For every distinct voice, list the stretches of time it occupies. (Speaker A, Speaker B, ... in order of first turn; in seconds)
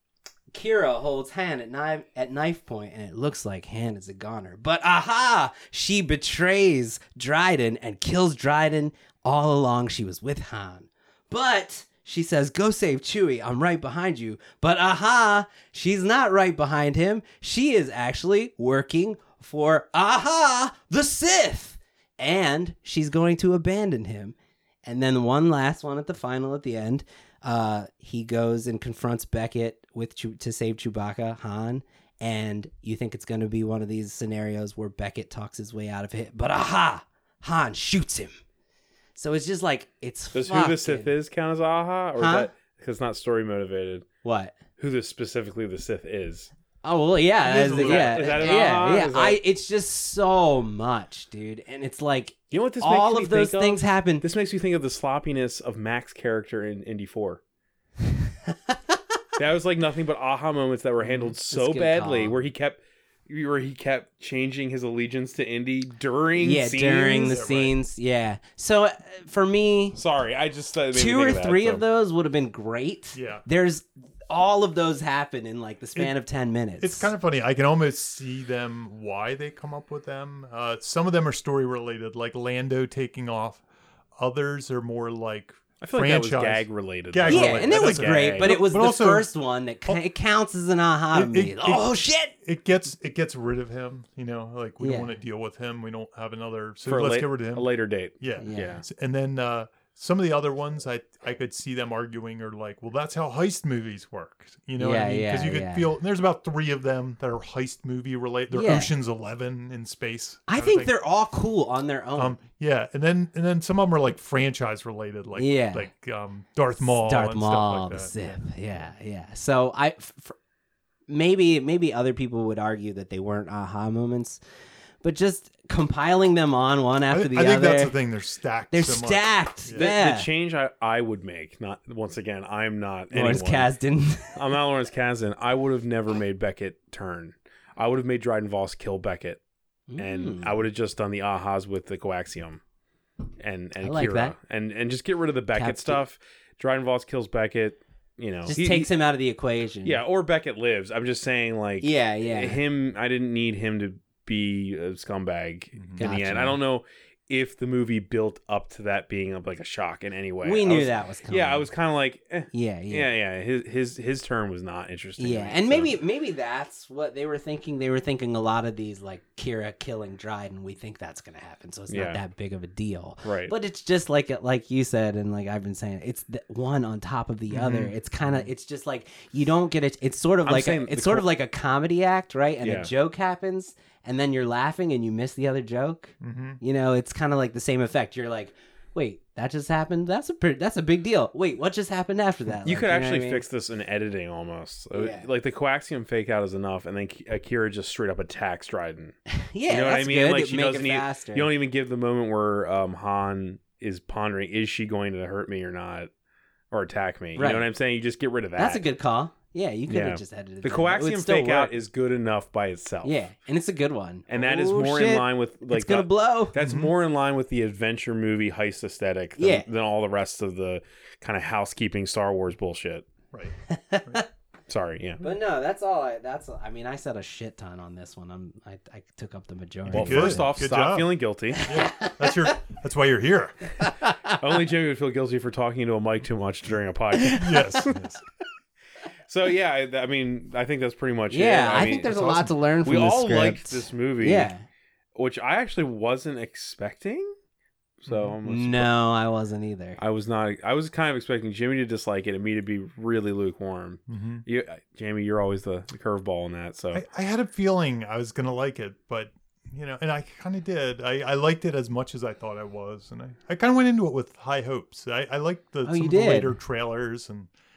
Speaker A: 0.5-38.4, 39.1-41.1, 42.2-42.5, 44.2-44.6, 46.8-54.2, 61.5-62.4, 66.4-70.0, 70.9-77.1, 87.3-92.3, 94.8-95.1, 98.4-98.8, 104.8-105.9, 108.5-108.9, 110.5-112.4, 115.3-115.9, 116.8-120.3, 121.1-124.4, 125.0-128.0, 128.7-130.3, 133.1-134.4, 139.9-140.6, 143.8-144.3, 145.5-146.0, 148.4-150.0, 151.8-152.6, 156.0-156.6, 160.4-161.7, 162.5-163.1, 165.2-193.4, 194.9-195.3, 199.3-201.5, 207.3-207.7, 208.6-211.7, 213.0-216.5, 219.4-219.7, 223.7-224.2, 225.2-230.4, 231.6-232.5, 233.8-234.5, 237.1-237.9, 241.3-244.6, 248.4-250.0, 265.8-266.5
Speaker B: 40.3-44.1, 44.8-46.5, 47.8-49.4, 52.5-57.4, 59.4-67.4, 70.0-71.8, 85.8-88.5, 96.8-98.8, 129.7-133.7, 134.3-139.4, 140.0-142.6, 143.4-148.9, 149.8-166.0, 171.9-172.2, 173.2-173.5, 180.4-181.3, 182.6-182.9, 192.6-199.2, 199.7-206.1, 206.7-208.8, 209.9-213.2, 214.3-223.1, 224.7-225.3, 229.9-231.7, 234.3-237.9, 239.3-244.5, 245.1-247.3, 248.0-248.9, 250.0-257.0
Speaker C: 47.4-49.0, 61.0-61.3, 67.2-67.7, 73.1-73.4, 76.8-83.6, 84.2-89.3, 91.1-97.7, 98.2-110.9, 112.2-118.9, 127.1-129.9, 155.8-156.0, 177.5-178.5, 186.2-186.6, 216.6-216.9, 223.3-224.2, 229.9-233.6, 237.4-238.2, 242.0-242.5, 248.1-248.3, 254.1-254.4, 256.9-267.5